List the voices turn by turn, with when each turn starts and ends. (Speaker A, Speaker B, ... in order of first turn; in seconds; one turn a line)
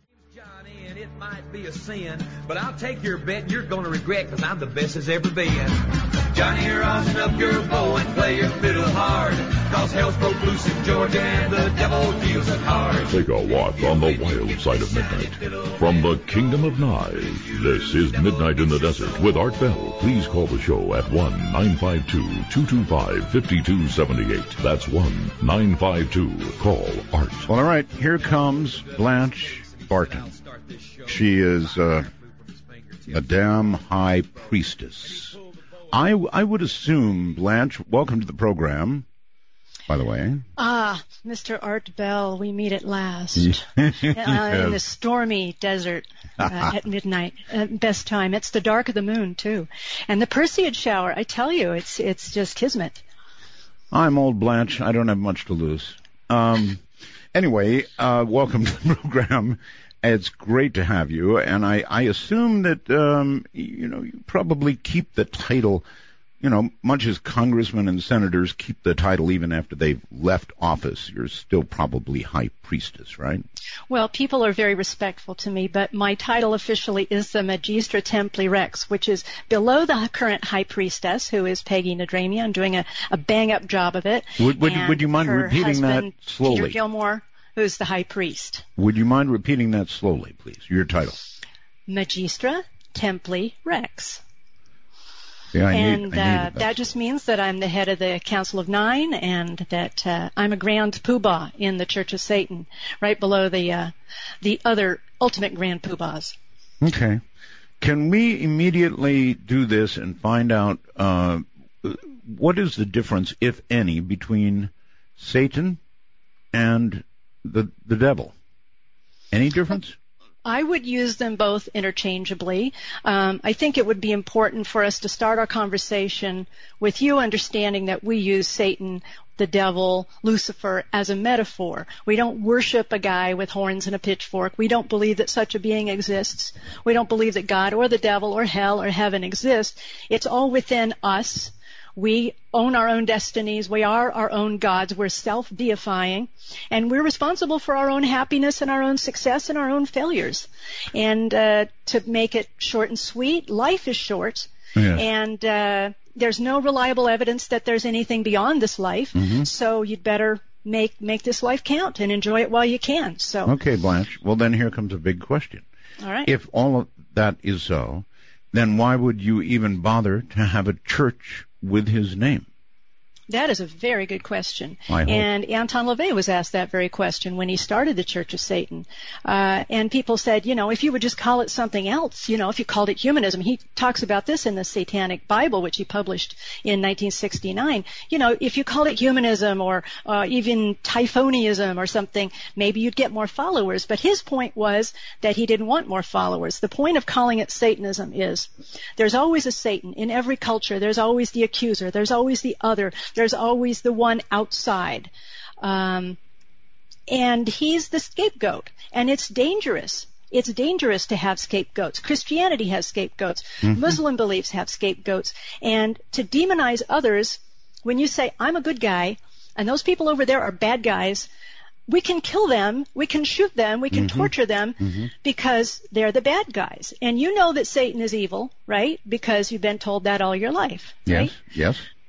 Speaker A: 0.3-16.1
Speaker B: 13.0-27.5
Speaker A: 17.4-19.2
Speaker C: 27.5-30.3
Speaker A: 28.2-33.7
Speaker C: 31.1-32.1
Speaker C: 33.1-35.4
Speaker A: 35.1-35.4
Speaker C: 35.9-39.1
Speaker C: 39.9-40.4
Speaker D: 40.6-53.0
Speaker C: 43.4-44.8
Speaker C: 53.9-56.8
Speaker C: 57.3-65.9
Speaker C: 66.4-73.5
Speaker D: 73.9-88.7
Speaker C: 84.4-86.8
Speaker C: 88.8-91.2
Speaker D: 91.9-94.2
Speaker C: 95.5-96.7
Speaker D: 95.7-106.4
Speaker C: 106.8-107.2
Speaker C: 107.8-115.8
Speaker C: 116.5-118.3
Speaker C: 119.3-120.0
Speaker D: 120.5-163.5
Speaker C: 154.8-155.0
Speaker C: 159.2-159.5
Speaker C: 163.5-165.7
Speaker D: 166.0-166.3
Speaker C: 166.3-172.5
Speaker D: 173.3-205.1
Speaker C: 174.9-175.3
Speaker D: 205.6-206.2
Speaker D: 207.1-221.3
Speaker C: 213.6-214.0
Speaker D: 221.9-231.3
Speaker C: 223.9-225.1
Speaker C: 231.1-231.9